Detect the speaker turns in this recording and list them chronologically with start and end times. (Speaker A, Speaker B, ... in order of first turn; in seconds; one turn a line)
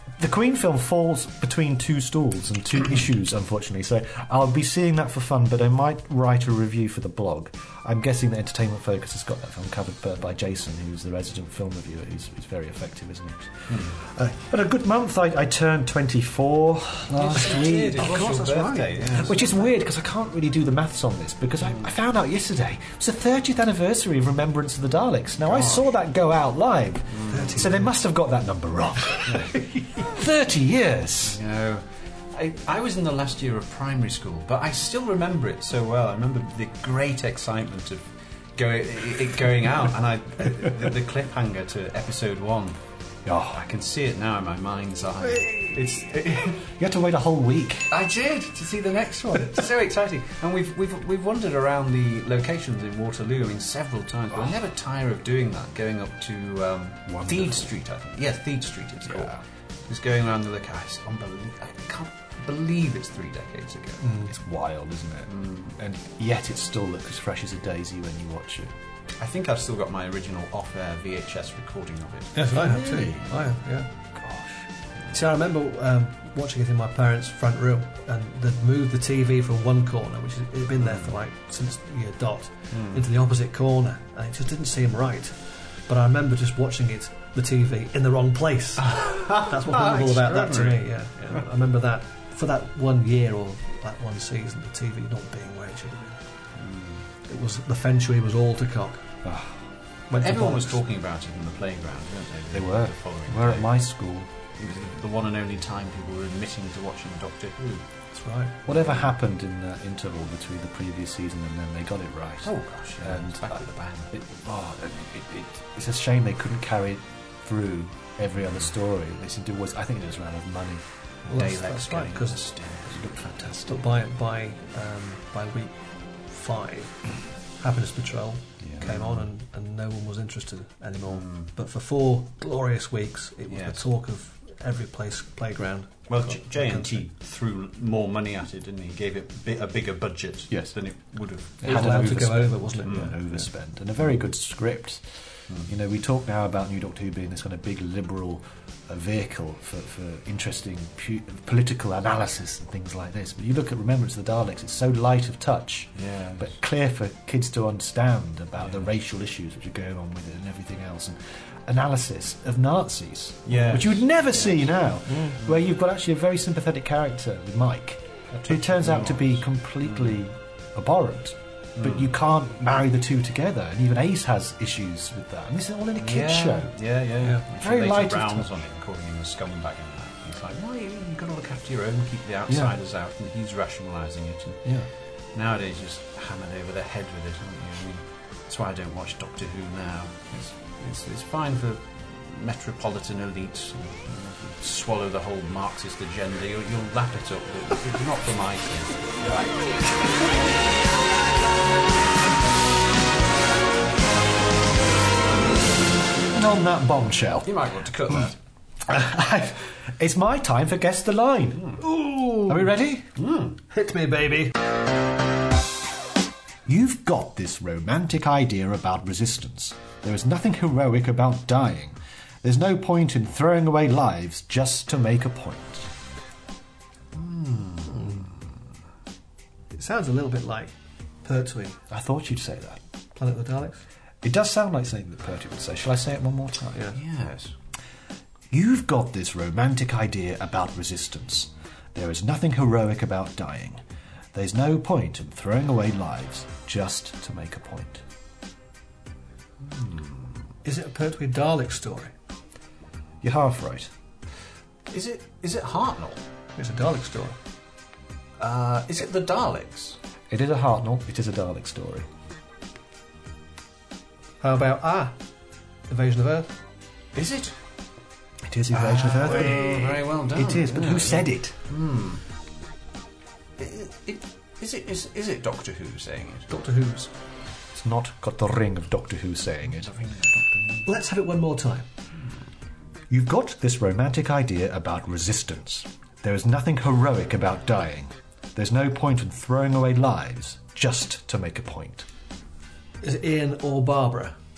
Speaker A: 0.2-18.3
Speaker B: 13.7-14.0
Speaker B: 17.2-19.4
Speaker C: 17.9-19.3
Speaker A: 19.1-31.4
Speaker B: 25.4-25.8
Speaker B: 27.1-27.6
Speaker C: 27.3-27.9
Speaker B: 29.3-29.6
Speaker B: 31.2-42.8
Speaker A: 43.2-43.6
Speaker B: 43.5-46.6
Speaker A: 46.6-47.9
Speaker B: 47.9-64.1
Speaker A: 57.1-57.7
Speaker A: 59.1-59.4
Speaker C: 64.0-64.3
Speaker A: 64.3-68.7
Speaker B: 65.3-65.8
Speaker B: 69.2-72.5
Speaker C: 72.3-73.9
Speaker A: 72.6-73.2
Speaker A: 74.2-74.7
Speaker C: 75.1-96.2
Speaker B: 80.8-81.1
Speaker B: 82.7-83.0
Speaker B: 88.8-90.8
Speaker B: 96.6-97.0
Speaker C: 97.3-99.0
Speaker A: 99.2-99.6
Speaker C: 100.1-100.8
Speaker B: 100.1-103.8
Speaker A: 102.5-104.3
Speaker B: 104.6-107.8
Speaker C: 108.1-108.5
Speaker A: 108.7-120.8
Speaker B: 108.7-109.1
Speaker B: 112.4-114.1
Speaker B: 121.3-123.4
Speaker C: 121.3-122.4
Speaker A: 122.9-123.8
Speaker C: 123.7-137.0
Speaker B: 128.7-129.1
Speaker B: 131.1-131.5
Speaker B: 133.5-133.8
Speaker B: 136.1-142.2
Speaker A: 140.5-140.8
Speaker A: 141.6-145.1
Speaker C: 141.6-143.5
Speaker B: 142.8-143.1
Speaker A: 145.6-176.8
Speaker B: 155.9-156.5
Speaker B: 163.4-164.6
Speaker C: 165.1-165.4
Speaker B: 168.4-170.2
Speaker B: 171.8-172.1
Speaker B: 176.0-199.6
Speaker A: 177.6-178.5
Speaker A: 182.5-182.8
Speaker A: 206.3-207.6
Speaker B: 207.4-208.4
Speaker A: 208.9-211.8
Speaker C: 211.8-212.6
Speaker A: 212.4-213.1
Speaker B: 213.2-213.6
Speaker C: 213.7-214.5
Speaker A: 216.7-225.9
Speaker B: 227.1-228.3
Speaker C: 227.9-228.2
Speaker C: 229.7-230.7
Speaker C: 231.2-231.8
Speaker A: 231.9-232.8
Speaker C: 233.2-233.8
Speaker A: 234.2-236.8
Speaker B: 236.9-237.5
Speaker A: 238.5-243.8
Speaker A: 244.3-248.0
Speaker B: 249.7-250.3
Speaker C: 250.6-252.1
Speaker A: 253.2-253.9
Speaker B: 254.9-256.2
Speaker C: 256.6-257.4
Speaker B: 258.4-260.0
Speaker A: 260.3-262.1
Speaker C: 264.4-265.1
Speaker C: 265.9-266.5
Speaker B: 267.1-267.6
Speaker A: 268.4-271.6
Speaker B: 268.7-272.2
Speaker B: 273.6-276.5
Speaker C: 276.5-277.1
Speaker A: 277.7-279.9
Speaker B: 279.7-280.9
Speaker C: 280.9-281.9
Speaker A: 283.1-292.1
Speaker C: 293.0-294.4